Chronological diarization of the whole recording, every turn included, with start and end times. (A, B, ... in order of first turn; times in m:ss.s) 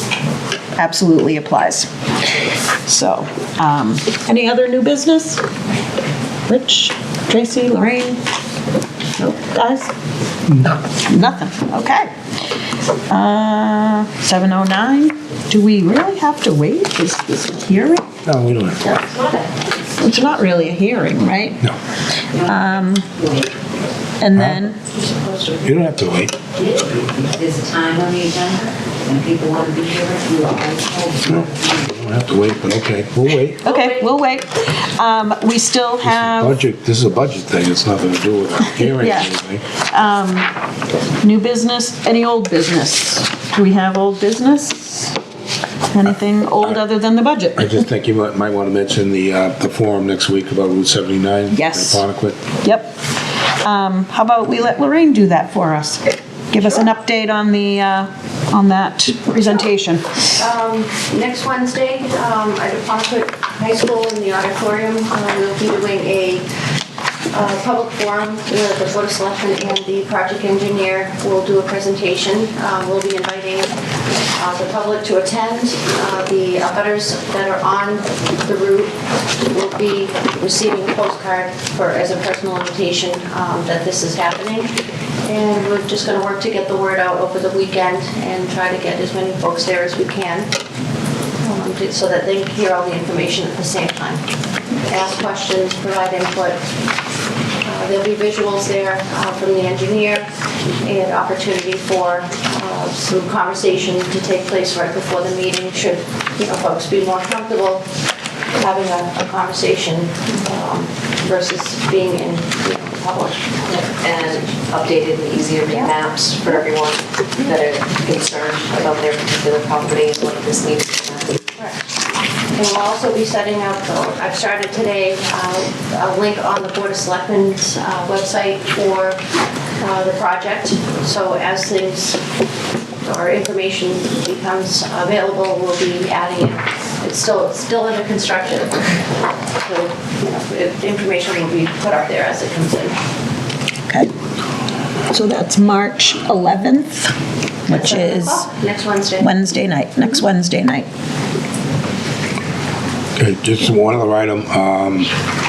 0:00.8-0:01.9 A
0:02.8-0:05.4 A
0:06.5-0:08.2 A
0:09.2-0:09.9 A
0:10.9-0:12.1 A
0:13.1-0:18.1 A
0:18.2-0:18.8 B
0:18.8-0:19.7 C
0:20.0-0:21.7 A
0:22.4-0:23.5 C
0:22.4-0:23.1 A
0:24.2-0:24.8 A
0:24.3-0:24.6 B
0:24.9-0:25.7 C
0:25.6-0:26.3 B
0:26.6-0:32.0 C
0:31.3-0:33.6 B
0:33.6-0:36.6 A
0:33.6-0:34.0 C
0:36.0-0:39.6 B
0:38.8-0:40.5 A
0:41.2-0:45.2 A
0:45.9-0:47.7 A
0:47.6-0:52.4 B
0:51.5-0:52.0 A
0:52.6-0:52.9 A
0:53.6-1:00.1 A
1:00.4-1:06.5 D
1:07.3-1:13.7 D
1:14.3-1:24.7 D
1:25.2-1:30.5 D
1:31.4-1:34.2 D
1:34.8-1:36.6 D
1:37.6-1:40.3 D
1:40.8-1:47.9 D
1:48.6-1:53.7 D
1:53.6-2:01.4 C
2:01.6-2:01.8 D
2:02.5-2:09.2 D
2:09.8-2:12.2 D
2:13.0-2:19.0 D
2:19.6-2:23.0 D
2:25.1-2:27.2 A
2:27.7-2:28.5 A
2:27.7-2:29.4 D
2:29.2-2:30.9 A
2:33.2-2:35.1 B